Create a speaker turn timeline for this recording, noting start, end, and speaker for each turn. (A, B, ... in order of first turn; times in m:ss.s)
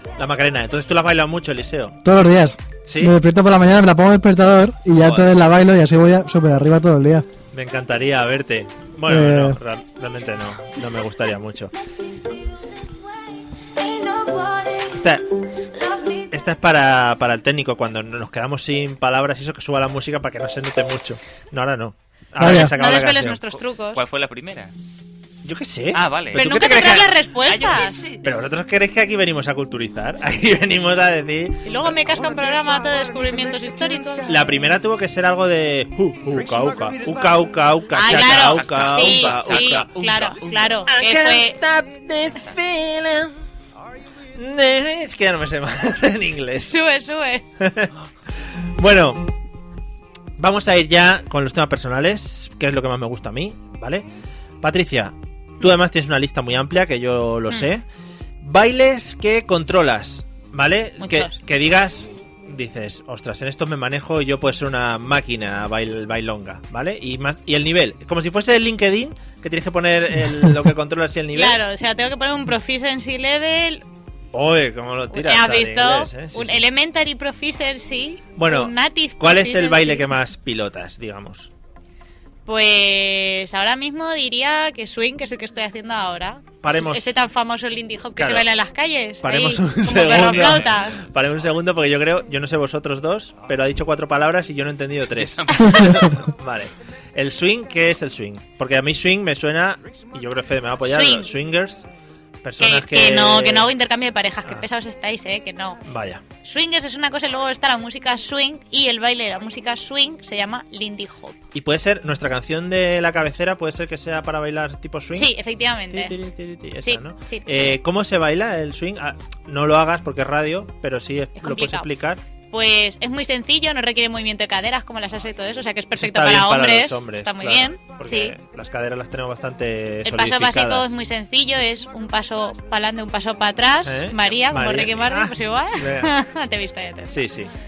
0:00.2-0:02.0 A
0:02.0-0:07.2 B
0:02.8-0:03.1 A
0:05.0-0:05.3 A
0:07.5-0:11.7 A
0:09.0-0:09.6 B
0:14.9-0:15.2 A
0:16.3-0:23.4 A
0:22.4-0:22.7 B
0:22.4-0:24.0 C
0:23.9-0:24.7 D
0:25.4-0:27.1 A
0:25.9-0:28.3 D
0:26.3-0:28.0 C
0:28.2-0:32.3 A
0:31.6-0:34.4 C
0:34.3-0:39.9 A
0:37.9-0:41.6 C
0:38.0-0:40.9 D
0:40.9-0:43.3 A
0:44.3-0:46.7 A
0:46.7-0:47.4 C
0:47.6-0:47.9 A
0:48.8-0:49.2 A
0:50.4-0:54.0 A
0:54.6-0:57.8 A
0:58.4-1:11.6 A
1:01.0-1:01.4 C
1:11.3-1:13.8 C
1:14.3-1:16.6 A
1:15.1-1:20.1 C
1:18.4-1:21.5 A
1:22.4-1:31.0 C
1:26.6-1:27.1 A
1:28.2-1:28.5 A
1:29.2-1:41.8 A
1:35.1-1:36.1 D
1:40.8-1:41.3 C
1:42.4-1:43.7 A
1:42.6-1:45.8 C
1:45.8-1:46.2 A
1:46.4-1:51.4 C
1:51.5-1:55.3 A
1:55.1-1:56.2 C
1:55.9-2:02.2 A
1:56.8-1:57.5 C
2:01.4-2:01.9 C
2:02.5-2:08.3 C
2:06.0-2:10.9 A
2:10.0-2:17.2 C
2:13.8-2:16.1 A
2:17.1-2:17.5 A